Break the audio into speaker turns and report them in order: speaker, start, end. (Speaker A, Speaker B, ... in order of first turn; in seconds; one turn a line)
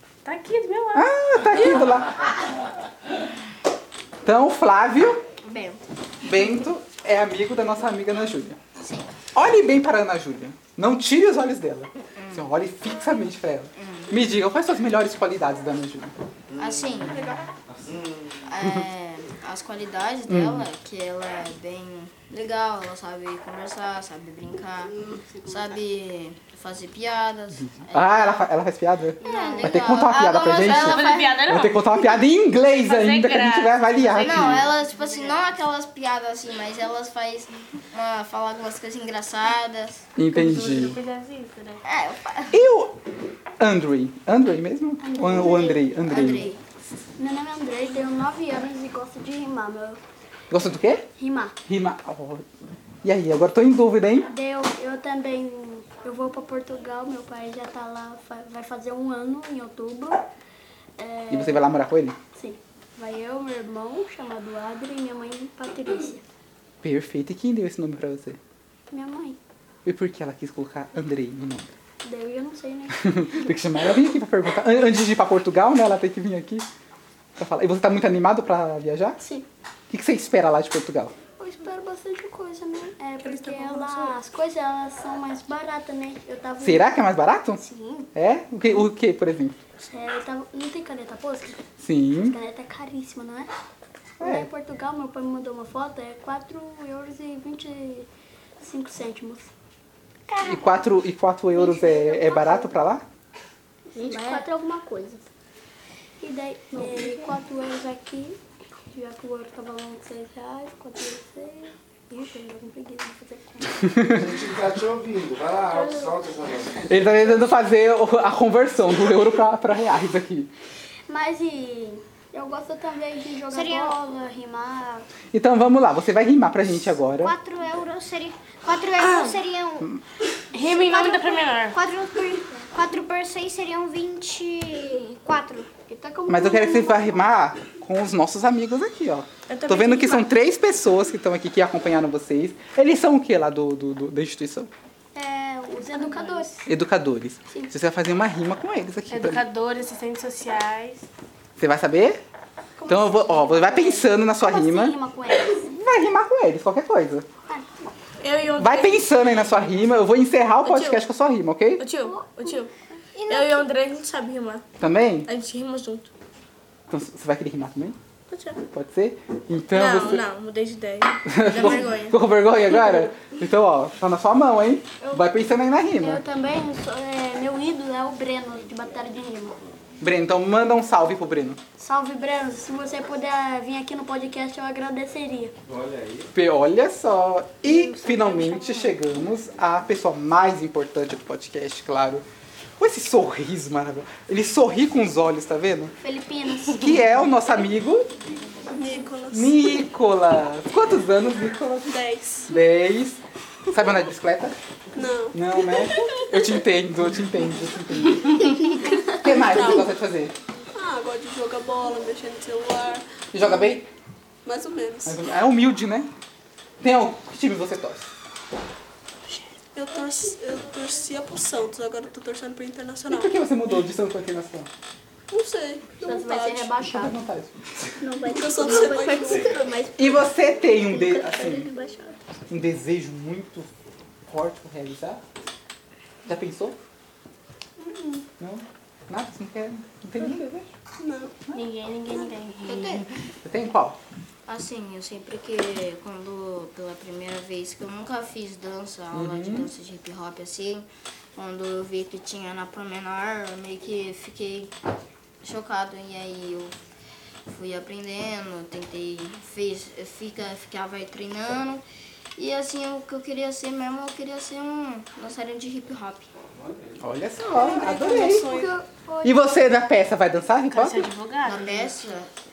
Speaker A: 0.2-1.6
Speaker B: 0.9-2.2
Speaker B: 4.2-5.2
Speaker C: 5.4-5.8
Speaker B: 6.2-8.6
Speaker C: 8.8-9.1
Speaker B: 9.3-16.1
Speaker C: 12.2-12.5
Speaker C: 13.8-14.1
Speaker C: 16.6-17.3
Speaker D: 17.8-18.2
Speaker C: 18.4-28.4
Speaker B: 20.3-20.7
Speaker B: 27.5-34.7
Speaker C: 29.2-31.4
Speaker A: 30.5-35.5
Speaker C: 34.2-40.1
Speaker B: 40.1-41.0
Speaker A: 40.3-41.8
Speaker C: 41.8-42.6
Speaker B: 42.5-43.0
Speaker B: 43.6-46.5
Speaker E: 45.0-45.9
Speaker C: 46.0-46.6
Speaker E: 47.2-50.0
Speaker B: 50.5-51.0
Speaker E: 51.2-51.5
Speaker B: 51.7-52.5
Speaker B: 53.0-54.3
Speaker E: 54.3-60.2
Speaker E: 61.0-61.7
Speaker B: 61.3-62.2
Speaker E: 62.3-66.2
Speaker B: 66.8-68.4
Speaker E: 68.9-69.4
Speaker B: 69.8-71.7
Speaker E: 72.0-73.2
Speaker B: 72.9-76.7
Speaker B: 77.3-79.2
Speaker B: 79.9-81.1
Speaker E: 81.4-87.0
Speaker F: 83.2-84.1
Speaker B: 86.6-87.6
Speaker E: 87.6-88.0
Speaker B: 88.1-89.5
Speaker E: 89.8-91.6
Speaker B: 91.8-92.3
Speaker E: 92.3-93.5
Speaker B: 94.2-94.5
Speaker E: 94.2-98.1
Speaker E: 98.6-99.5
Speaker G: 100.3-100.7
Speaker B: 100.4-103.0
Speaker E: 101.6-102.7
Speaker G: 104.0-104.4
Speaker E: 104.0-105.2
Speaker E: 106.2-108.4
Speaker E: 108.9-113.9
Speaker D: 114.1-116.9
Speaker E: 115.8-116.1
Speaker B: 116.8-120.5
Speaker E: 121.1-125.1
Speaker G: 123.5-124.0
Speaker B: 125.3-127.3
Speaker G: 127.2-129.9
Speaker A: 129.0-129.3
Speaker A: 130.5-131.8
Speaker G: 130.6-135.7
Speaker E: 135.9-137.2
Speaker B: 136.3-144.7
Speaker F: 139.5-140.3
Speaker E: 145.1-146.6
Speaker A: 145.9-146.5
Speaker B: 146.7-149.4
Speaker A: 149.1-151.1
Speaker B: 151.6-152.2
Speaker E: 152.8-155.6
Speaker B: 152.9-157.2
Speaker F: 158.2-159.1
Speaker B: 158.6-161.8
Speaker F: 160.6-161.0
Speaker F: 161.8-162.7
Speaker G: 163.1-163.7
Speaker F: 163.3-164.6
Speaker B: 164.8-165.3
Speaker F: 165.3-166.1
Speaker B: 166.9-168.0
Speaker F: 168.3-168.6
Speaker B: 168.7-170.2
Speaker F: 169.7-172.2
Speaker B: 171.2-176.2
Speaker E: 176.0-179.6
Speaker B: 180.0-181.6
Speaker E: 181.8-185.5
Speaker D: 185.7-186.2
Speaker B: 186.3-192.2
Speaker E: 187.6-188.9
Speaker B: 192.8-195.9
Speaker E: 196.0-197.0
Speaker B: 196.7-198.1
Speaker H: 198.7-199.8
Speaker B: 199.3-204.6
Speaker H: 201.8-202.5
Speaker H: 204.9-205.4
Speaker B: 205.3-210.3
Speaker H: 208.9-209.9
Speaker H: 210.7-213.8
Speaker B: 213.3-213.9
Speaker H: 214.4-215.2
Speaker B: 215.0-216.1
Speaker B: 216.8-218.1
Speaker H: 219.7-223.4
Speaker B: 223.1-224.7
Speaker H: 225.3-226.8
Speaker E: 226.0-227.2
Speaker B: 226.8-228.0
Speaker E: 228.0-230.2
Speaker H: 228.2-229.7
Speaker B: 229.9-231.7
Speaker E: 230.7-232.2
Speaker B: 232.5-233.7
Speaker B: 234.3-235.2
Speaker B: 236.2-236.8
Speaker B: 238.4-240.7
Speaker H: 241.0-241.4
Speaker A: 241.5-243.1
Speaker C: 242.6-243.0
Speaker B: 243.4-244.0
Speaker C: 244.5-254.7
Speaker B: 249.1-249.7
Speaker C: 255.4-256.8
Speaker C: 257.5-261.8
Speaker C: 262.4-266.3
Speaker B: 267.0-268.5
Speaker H: 267.5-268.8
Speaker E: 267.7-269.4
Speaker B: 269.2-271.1
Speaker A: 270.7-271.9
Speaker C: 271.4-272.3